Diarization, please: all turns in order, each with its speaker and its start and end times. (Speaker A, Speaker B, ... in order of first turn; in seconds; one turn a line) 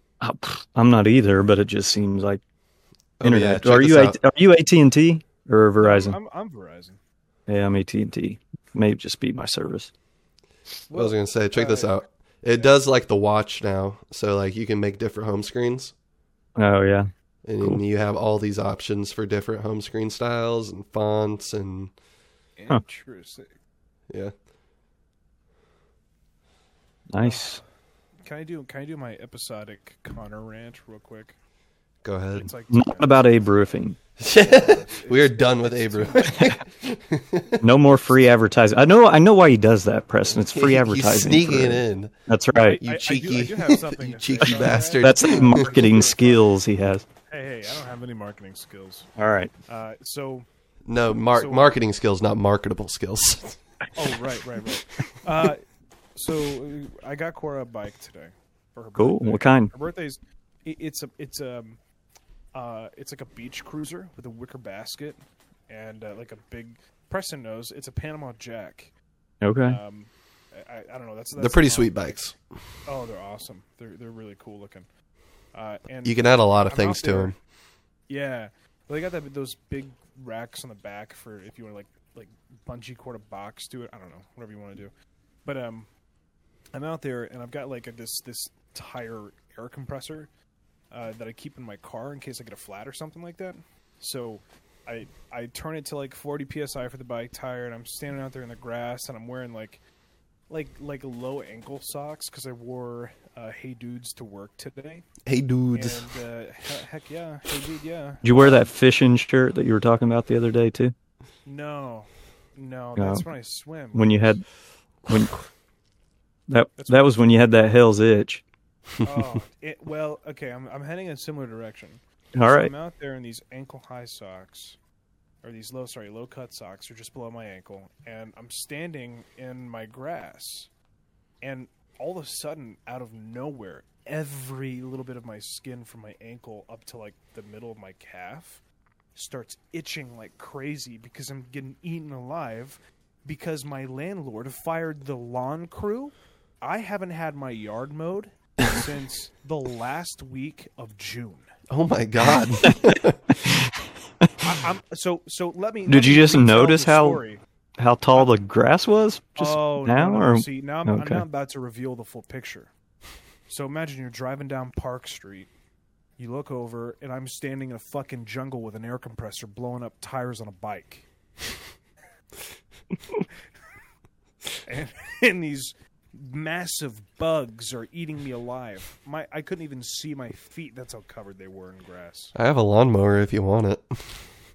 Speaker A: 0.2-2.4
Speaker B: 3.2-4.2
Speaker A: 3.2-6.2
Speaker C: 5.8-7.0
Speaker A: 7.5-9.9
Speaker C: 10.9-12.8
Speaker B: 10.9-15.9
Speaker A: 16.6-17.1
Speaker B: 17.4-21.9
Speaker C: 22.6-23.6
Speaker A: 27.1-27.6
Speaker C: 27.2-27.6
Speaker C: 28.2-31.4
Speaker B: 32.0-32.5
Speaker C: 32.3-33.3
Speaker A: 32.7-34.0
Speaker B: 34.2-37.6
Speaker C: 34.3-36.6
Speaker A: 37.6-42.8
Speaker B: 40.3-42.1
Speaker C: 42.5-46.5
Speaker B: 42.8-45.8
Speaker A: 44.5-47.0
Speaker C: 47.3-49.1
Speaker A: 49.2-49.5
Speaker C: 49.7-50.5
Speaker B: 50.9-53.6
Speaker C: 51.3-51.7
Speaker C: 54.0-55.6
Speaker C: 56.1-61.8
Speaker A: 59.0-59.7
Speaker C: 62.5-68.9
Speaker A: 69.4-69.8
Speaker C: 69.6-72.3
Speaker B: 71.4-72.3
Speaker C: 72.8-74.9
Speaker C: 75.5-77.3
Speaker B: 76.0-77.3
Speaker C: 78.1-84.9
Speaker C: 85.4-85.9
Speaker C: 86.7-90.3
Speaker C: 90.9-99.8
Speaker C: 100.5-105.1
Speaker B: 105.2-106.0
Speaker C: 105.7-108.7
Speaker A: 108.2-110.9
Speaker C: 111.5-114.4
Speaker A: 113.0-113.2
Speaker A: 113.9-114.4
Speaker A: 116.5-118.4
Speaker C: 116.8-117.3
Speaker C: 119.0-124.8
Speaker A: 122.3-122.7
Speaker C: 125.4-130.7
Speaker C: 131.4-138.6
Speaker C: 139.1-151.5
Speaker B: 151.7-153.2
Speaker A: 153.4-154.3
Speaker C: 154.4-157.4
Speaker A: 155.9-157.2
Speaker A: 157.8-161.2
Speaker C: 159.3-162.7
Speaker C: 163.5-165.5
Speaker C: 166.2-171.1
Speaker C: 174.6-182.3
Speaker B: 182.3-184.3